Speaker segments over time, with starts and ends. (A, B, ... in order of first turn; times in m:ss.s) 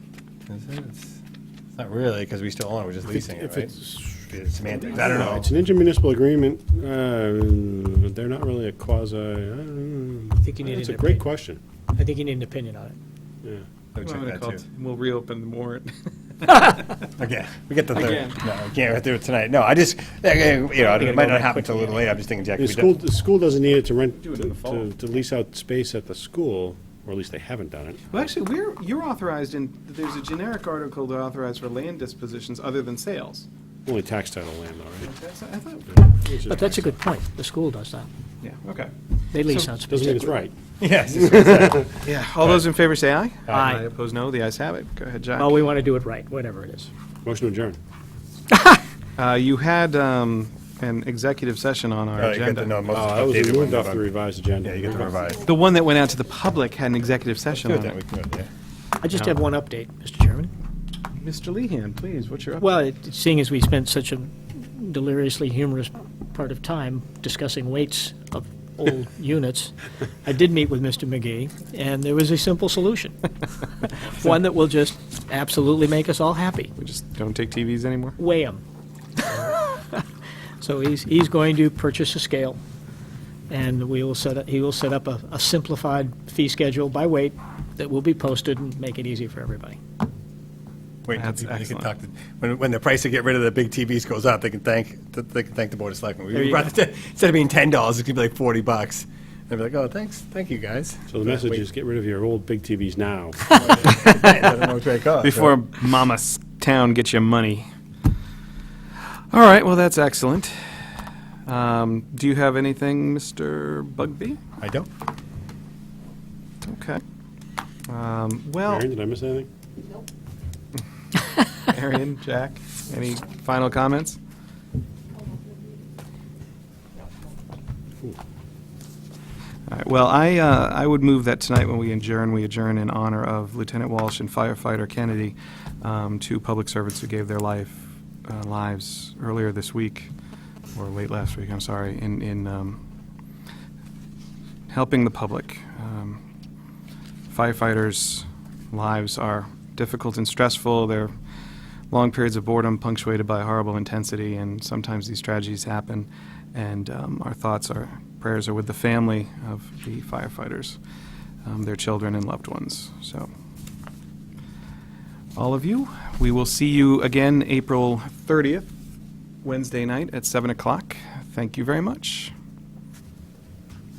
0:00.5-0:01.2 A
0:01.8-0:03.8 A
0:03.0-0:11.6 B
0:04.3-0:05.4 A
0:04.8-0:05.3 C
0:10.4-0:11.2 D
0:11.9-0:13.0 D
0:13.9-0:14.6 A
0:14.0-0:16.9 C
0:17.2-0:23.0 A
0:17.9-0:18.5 C
0:20.7-0:22.1 D
0:22.6-0:28.1 B
0:24.1-0:24.9 C
0:28.1-0:33.5 C
0:33.8-0:35.1 B
0:35.0-0:36.2 C
0:36.2-0:36.9 B
0:36.5-0:38.1 D
0:38.4-0:39.7 C
0:39.3-0:40.3 D
0:39.9-0:40.5 B
0:40.8-0:41.8 A
0:41.1-0:41.9 B
0:42.0-0:45.6 C
0:43.5-0:43.8 D
0:45.4-0:46.9 D
0:47.2-0:47.8 B
0:49.2-0:52.8 C
0:52.2-0:54.1 A
0:52.9-0:55.1 B
0:54.6-0:55.4 A
0:55.4-0:58.0 C
0:57.5-0:58.5 A
0:59.0-1:00.5 D
1:01.2-1:02.7 C
1:02.6-1:16.7 D
1:16.8-1:18.2 C
1:18.2-1:18.6 D
1:19.2-1:20.0 D
1:20.6-1:22.6 D
1:23.5-1:29.8 D
1:31.0-1:41.6 A
1:31.1-1:31.9 C
1:36.3-1:36.7 D
1:41.1-1:43.5 B
1:43.5-1:45.6 A
1:43.9-1:44.3 C
1:45.2-1:47.7 C
1:49.3-1:50.6 C
1:51.4-1:54.4 C
1:54.6-1:54.9 A
1:56.6-1:57.0 C
1:57.9-1:58.9 C
1:58.6-1:59.5 B
2:01.5-2:04.2 C
2:09.7-2:20.1 C
2:20.7-2:22.8 C
2:24.7-2:26.2 C
2:27.3-2:31.1 C
2:31.9-2:40.8 C
2:41.4-2:43.3 C
2:45.3-2:48.7 C
2:49.4-2:52.3 C